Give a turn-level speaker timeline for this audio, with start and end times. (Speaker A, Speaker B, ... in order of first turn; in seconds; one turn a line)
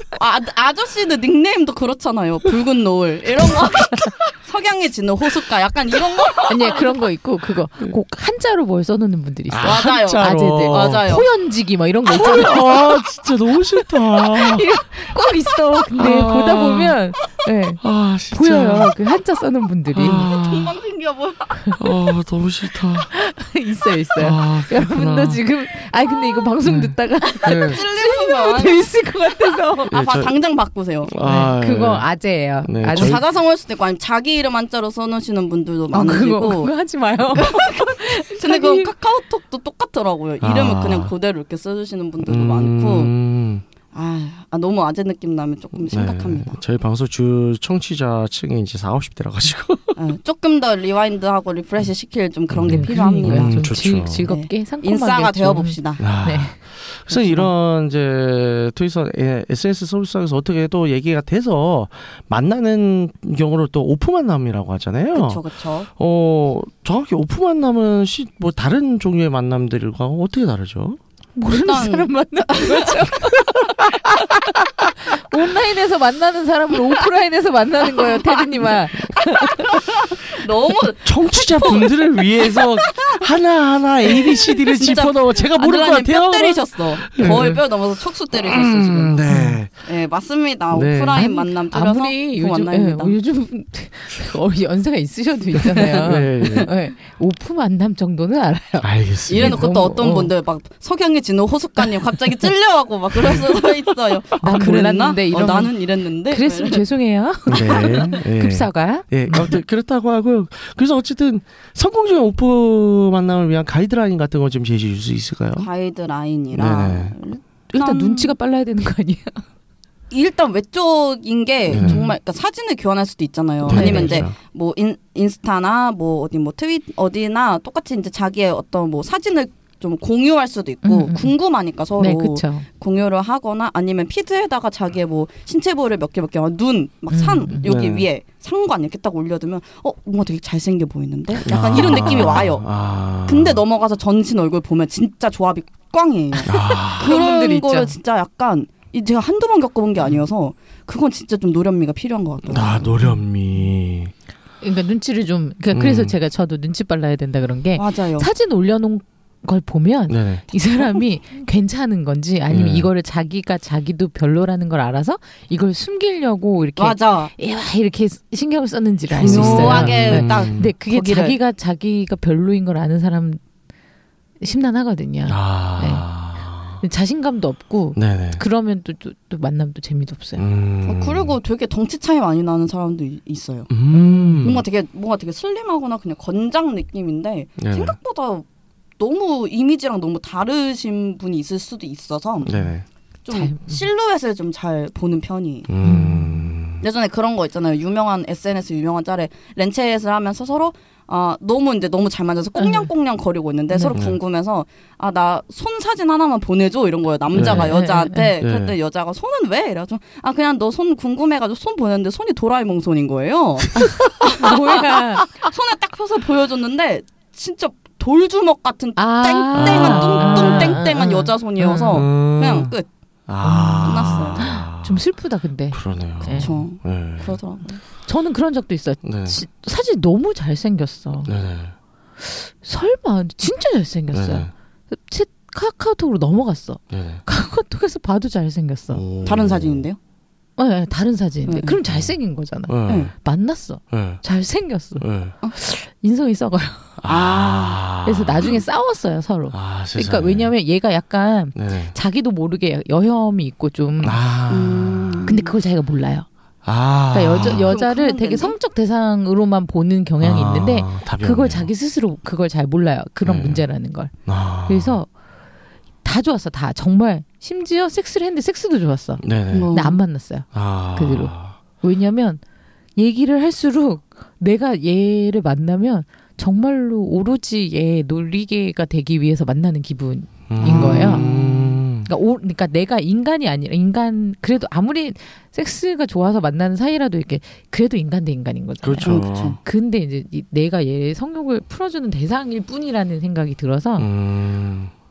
Speaker A: 0.2-7.0
Speaker B: 3.5-4.1
Speaker C: 6.5-12.8
Speaker B: 9.5-11.1
Speaker A: 9.6-11.3
Speaker B: 12.1-14.7
Speaker C: 14.1-20.3
Speaker B: 16.0-17.0
Speaker B: 17.8-18.9
Speaker B: 19.9-20.7
Speaker A: 20.1-21.8
Speaker B: 21.8-23.1
Speaker C: 23.1-29.9
Speaker B: 24.2-25.4
Speaker B: 26.7-27.8
Speaker A: 27.4-31.1
Speaker B: 29.9-30.3
Speaker B: 31.1-32.1
Speaker C: 31.2-33.2
Speaker B: 32.6-33.2
Speaker A: 32.9-36.7
Speaker C: 35.9-38.9
Speaker A: 37.4-43.1
Speaker B: 40.4-41.1
Speaker B: 42.2-43.6
Speaker A: 43.9-46.6
Speaker B: 45.8-50.0
Speaker A: 50.0-56.1
Speaker B: 52.5-54.3
Speaker C: 52.6-56.6
Speaker B: 56.0-65.4
Speaker A: 57.1-57.5
Speaker A: 65.1-65.9
Speaker B: 66.0-71.0
Speaker C: 71.4-79.9
Speaker A: 71.5-73.1
Speaker A: 79.7-83.3
Speaker B: 81.0-87.6
Speaker A: 84.1-89.3
Speaker B: 88.3-89.7
Speaker C: 89.3-89.6
Speaker A: 89.8-93.1
Speaker B: 90.7-91.2
Speaker C: 91.1-100.3
Speaker B: 95.9-96.7
Speaker B: 98.8-99.7
Speaker A: 99.3-106.8
Speaker C: 104.4-105.7
Speaker C: 106.3-109.6
Speaker B: 107.5-115.7
Speaker A: 107.8-108.1
Speaker A: 115.6-118.3
Speaker B: 116.5-117.1
Speaker C: 117.7-119.4
Speaker A: 120.1-142.7
Speaker B: 121.7-122.0
Speaker C: 121.8-122.1
Speaker B: 123.6-124.4
Speaker C: 123.7-124.3
Speaker C: 130.8-131.3
Speaker C: 132.0-132.7
Speaker C: 137.1-137.7
Speaker B: 137.6-138.1
Speaker B: 141.4-143.6
Speaker A: 143.3-152.9
Speaker B: 146.4-147.2
Speaker C: 146.5-147.9
Speaker B: 152.5-154.1
Speaker C: 154.6-173.4
Speaker B: 155.7-156.1
Speaker A: 157.8-158.3
Speaker B: 160.1-160.4
Speaker B: 162.5-162.9
Speaker A: 166.8-167.3
Speaker B: 169.1-170.7
Speaker A: 169.2-171.4
Speaker C: 174.4-176.1
Speaker B: 175.3-176.8
Speaker C: 176.8-180.4
Speaker B: 177.9-178.4
Speaker B: 180.4-181.4
Speaker A: 180.8-183.7
Speaker B: 183.7-184.6
Speaker C: 183.9-184.5
Speaker A: 184.4-188.4
Speaker B: 187.6-188.0
Speaker A: 189.0-192.6
Speaker B: 192.4-192.8
Speaker A: 193.2-195.7
Speaker C: 193.3-193.8
Speaker B: 195.7-196.8
Speaker C: 195.8-196.4
Speaker A: 196.8-222.9
Speaker C: 202.6-202.9
Speaker B: 203.9-204.2
Speaker B: 207.3-207.7
Speaker C: 207.3-208.3
Speaker B: 208.4-208.8
Speaker C: 214.2-215.3
Speaker C: 219.0-222.1
Speaker B: 219.5-220.8
Speaker B: 221.9-222.7
Speaker B: 223.3-225.0
Speaker C: 223.4-226.6
Speaker A: 223.8-224.5
Speaker B: 225.7-227.4
Speaker A: 226.3-227.8
Speaker C: 228.1-231.3
Speaker B: 229.0-229.4
Speaker B: 231.2-231.7
Speaker C: 232.2-239.0
Speaker B: 234.1-234.5
Speaker B: 236.9-237.2
Speaker B: 238.9-239.8
Speaker A: 239.2-240.0
Speaker C: 240.6-246.9
Speaker A: 241.5-241.8
Speaker B: 241.9-242.1
Speaker B: 242.7-243.1
Speaker B: 243.9-244.2
Speaker B: 245.0-245.3
Speaker B: 247.0-248.5
Speaker A: 247.1-247.8
Speaker C: 248.1-254.2
Speaker B: 249.5-250.5
Speaker B: 251.6-251.9
Speaker B: 254.0-255.3
Speaker A: 254.5-255.5
Speaker C: 255.2-256.3
Speaker B: 256.6-257.7
Speaker C: 257.1-264.1
Speaker A: 257.4-258.6
Speaker B: 260.2-261.7
Speaker B: 263.2-263.6
Speaker B: 264.3-265.0
Speaker C: 264.7-265.1
Speaker C: 266.0-272.4
Speaker B: 269.2-269.7
Speaker A: 269.5-270.0
Speaker B: 270.5-271.6
Speaker C: 273.0-281.3
Speaker B: 280.5-282.1
Speaker A: 280.6-281.4
Speaker C: 282.0-294.1
Speaker B: 288.8-289.6
Speaker A: 289.0-289.6
Speaker B: 294.0-294.9